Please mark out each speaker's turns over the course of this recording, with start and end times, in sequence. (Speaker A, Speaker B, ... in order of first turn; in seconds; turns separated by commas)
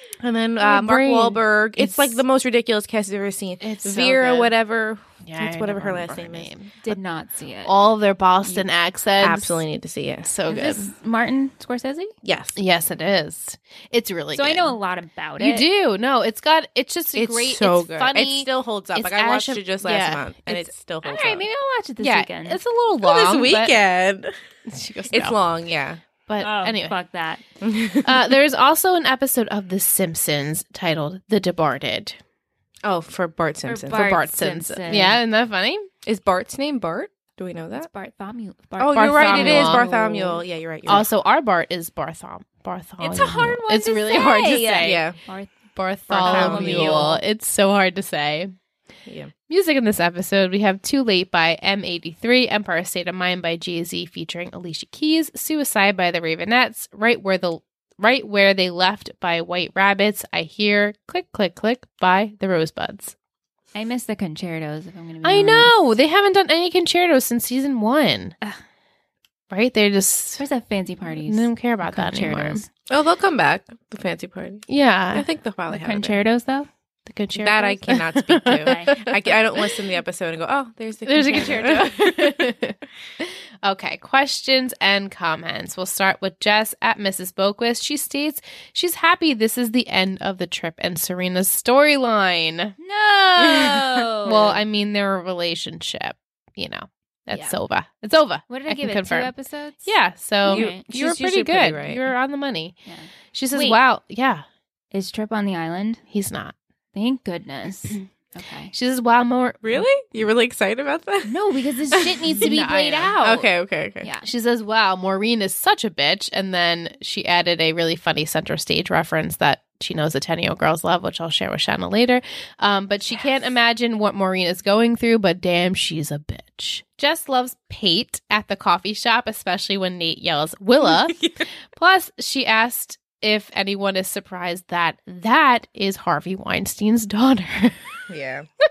Speaker A: 0.2-6.5, Speaker B: 0.6-2.2, Speaker B: 3.6-4.5, Speaker B: 5.2-6.9, Speaker C: 6.8-7.7, Speaker B: 7.6-9.6, Speaker A: 9.2-10.8, Speaker B: 10.2-10.8, Speaker C: 10.5-12.1, Speaker A: 12.2-12.6, Speaker B: 12.5-14.7, Speaker C: 14.3-15.7, Speaker B: 15.4-20.7, Speaker A: 17.1-21.4, Speaker C: 21.0-22.6, Speaker B: 22.0-23.8, Speaker A: 23.0-24.3, Speaker B: 24.7-25.4, Speaker A: 25.1-26.0, Speaker B: 26.3-27.0, Speaker C: 26.4-27.4, Speaker A: 27.6-28.2, Speaker B: 28.0-32.2, Speaker A: 32.8-34.1, Speaker C: 33.7-35.2, Speaker B: 33.9-35.9, Speaker A: 36.0-37.9, Speaker C: 37.8-40.4, Speaker A: 38.8-41.1, Speaker B: 38.9-39.8, Speaker B: 40.9-45.0, Speaker C: 43.0-47.2, Speaker A: 44.8-45.2, Speaker B: 45.7-48.5, Speaker A: 46.2-47.2, Speaker A: 49.0-49.3, Speaker B: 49.5-63.1, Speaker C: 63.7-65.7, Speaker B: 65.2-68.3, Speaker B: 69.5-70.4, Speaker C: 70.4-72.7, Speaker B: 71.2-72.6, Speaker A: 72.9-76.2, Speaker B: 74.7-75.2, Speaker C: 75.7-76.7, Speaker B: 75.9-76.3, Speaker B: 77.0-79.9, Speaker A: 77.3-82.5, Speaker C: 78.6-78.9, Speaker B: 81.0-92.8, Speaker C: 92.8-94.6, Speaker B: 94.2-99.3, Speaker C: 97.3-97.6, Speaker C: 98.5-100.8, Speaker B: 99.8-102.7, Speaker A: 100.5-102.1, Speaker C: 102.8-103.8, Speaker B: 103.3-104.4, Speaker C: 104.9-106.0, Speaker B: 106.1-106.5, Speaker C: 106.9-108.7, Speaker B: 108.7-109.8, Speaker A: 109.6-111.3, Speaker C: 111.2-113.4, Speaker A: 111.9-112.5, Speaker B: 112.4-113.4, Speaker A: 113.2-114.1, Speaker B: 114.2-138.0, Speaker A: 130.8-131.4, Speaker A: 138.1-138.5